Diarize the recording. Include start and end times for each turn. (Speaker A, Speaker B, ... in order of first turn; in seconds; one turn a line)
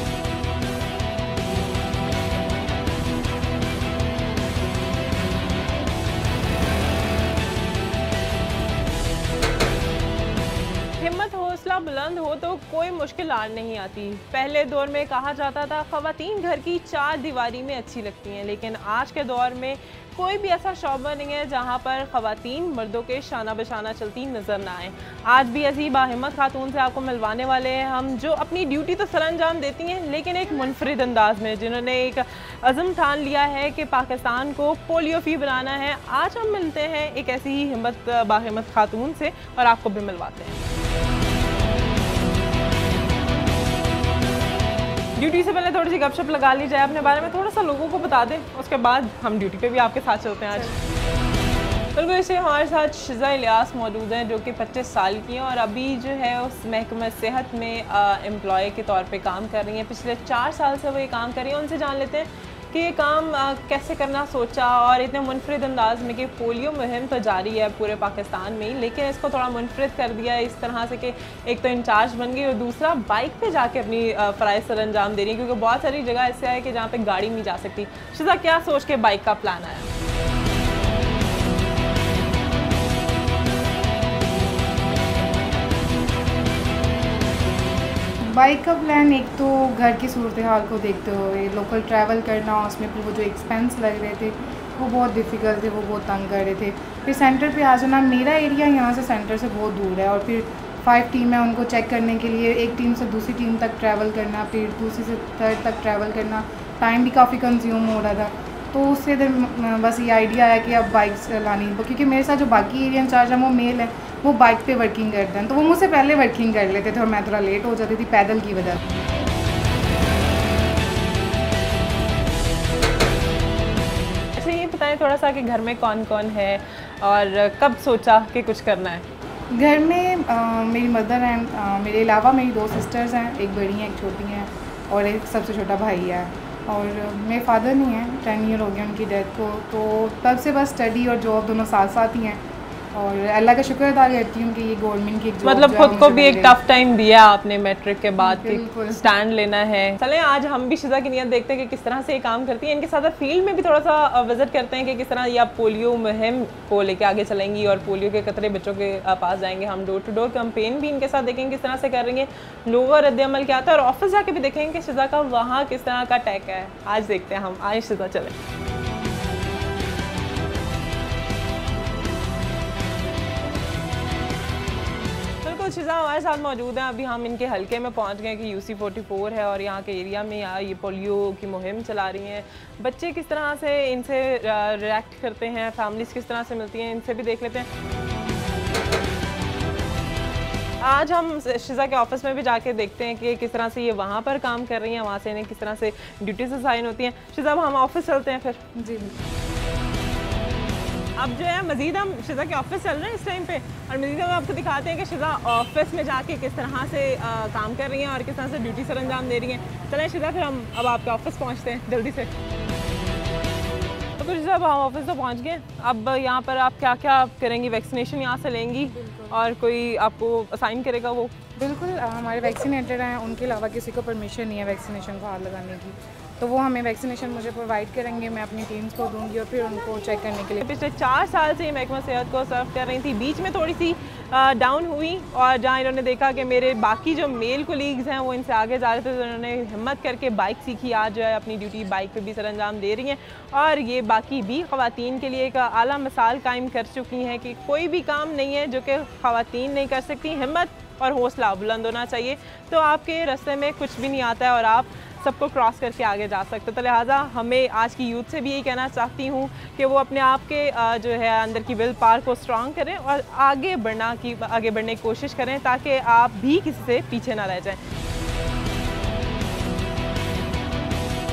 Speaker A: 11.0-40.6
Speaker A: 45.2-50.8
Speaker A: 52.0-79.9
Speaker B: 88.3-118.8
Speaker A: 124.3-129.1
Speaker B: 129.6-142.4
Speaker B: 142.9-146.6
Speaker A: 145.4-168.3
Speaker B: 148.2-149.1
Speaker A: 175.4-187.7
Speaker A: 190.8-198.6
Speaker B: 198.8-199.2
Speaker A: 201.2-212.3
Speaker A: 214.2-221.3
Speaker B: 221.6-230.6
Speaker A: 230.6-267.8